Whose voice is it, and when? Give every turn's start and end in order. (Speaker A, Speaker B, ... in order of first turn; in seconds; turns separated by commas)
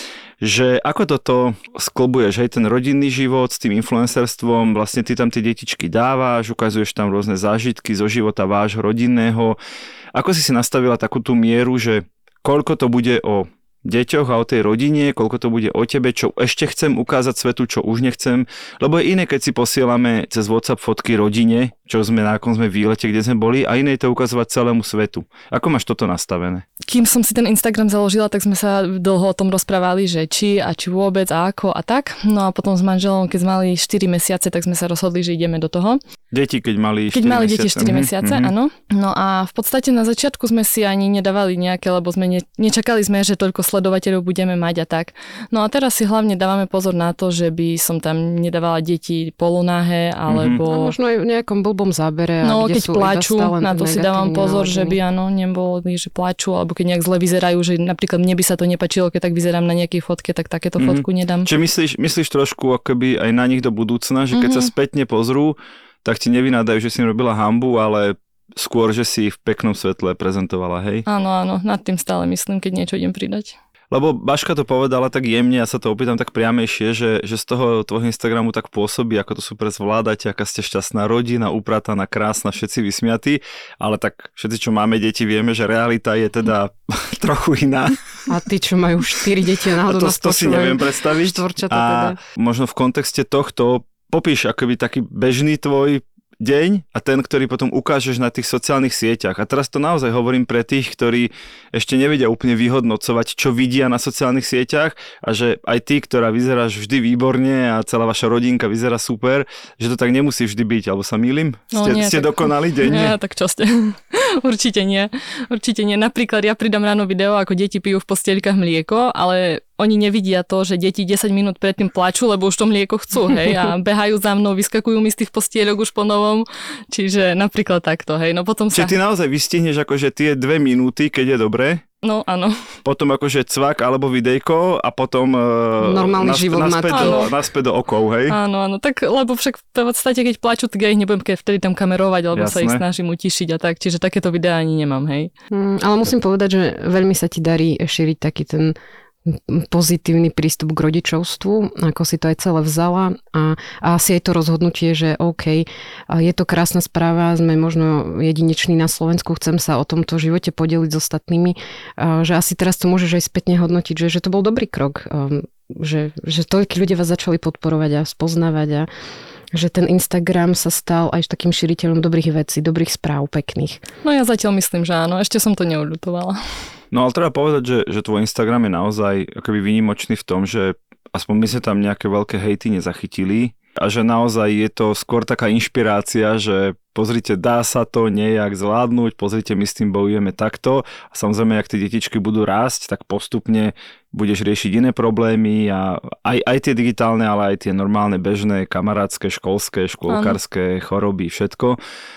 Speaker A: 0.4-9.6, Speaker A: 10.1-26.7, Speaker B: 26.9-36.0, Speaker A: 36.3-38.5, Speaker B: 37.1-50.9, Speaker A: 50.3-50.6, Speaker C: 50.7-55.0, Speaker B: 52.4-61.5, Speaker A: 60.8-71.1, Speaker B: 64.3-64.7, Speaker B: 71.1-73.6, Speaker A: 73.9-88.0, Speaker C: 88.3-92.2, Speaker A: 89.9-113.2, Speaker B: 111.7-128.9, Speaker A: 128.7-131.8, Speaker B: 132.0-132.6, Speaker A: 132.8-138.4, Speaker C: 135.8-137.3, Speaker B: 136.9-137.3, Speaker B: 138.3-145.3, Speaker A: 142.3-142.8, Speaker C: 145.5-148.8, Speaker C: 149.3-168.9, Speaker C: 169.5-173.8, Speaker B: 174.0-176.4, Speaker A: 176.9-201.8, Speaker B: 200.1-200.4